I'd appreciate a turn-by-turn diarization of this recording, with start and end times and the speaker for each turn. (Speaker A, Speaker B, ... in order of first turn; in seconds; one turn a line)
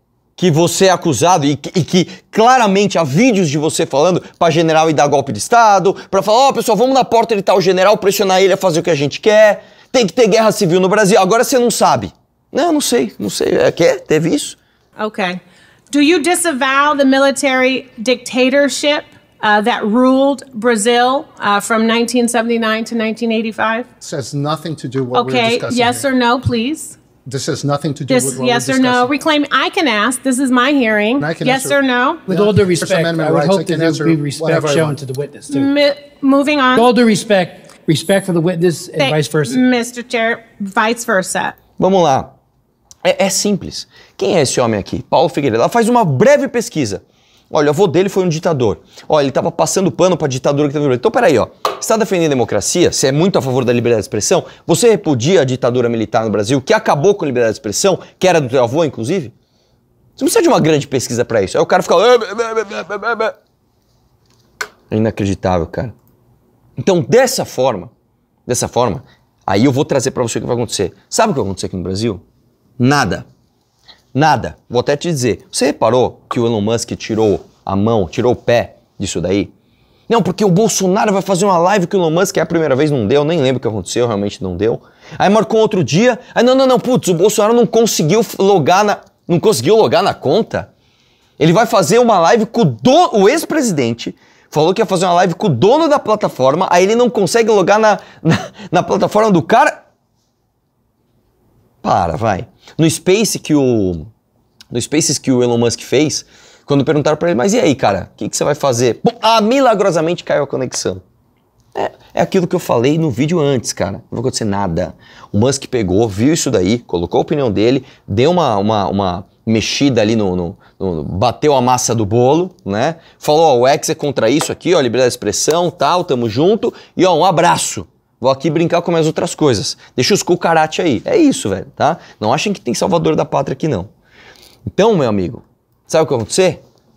Speaker A: 0.4-14.6
Speaker B: 15.0-15.4
Speaker B: 15.9-23.9
Speaker C: 24.0-26.1
Speaker B: 25.1-27.0
Speaker C: 27.3-29.1
Speaker B: 28.1-32.3
Speaker C: 31.2-35.0
Speaker D: 32.4-35.7
Speaker B: 35.5-36.9
Speaker D: 36.8-39.6
Speaker B: 39.0-41.5
Speaker A: 41.8-42.3
Speaker A: 43.0-59.3
Speaker A: 60.2-63.4
Speaker A: 64.9-65.9
Speaker A: 66.8-67.9
Speaker A: 68.5-72.2
Speaker A: 72.8-73.2
Speaker A: 74.1-79.5
Speaker A: 80.1-90.7
Speaker A: 91.4-99.8
Speaker A: 101.8-104.1
Speaker A: 104.7-111.0
Speaker A: 111.8-133.9
Speaker A: 134.7-136.6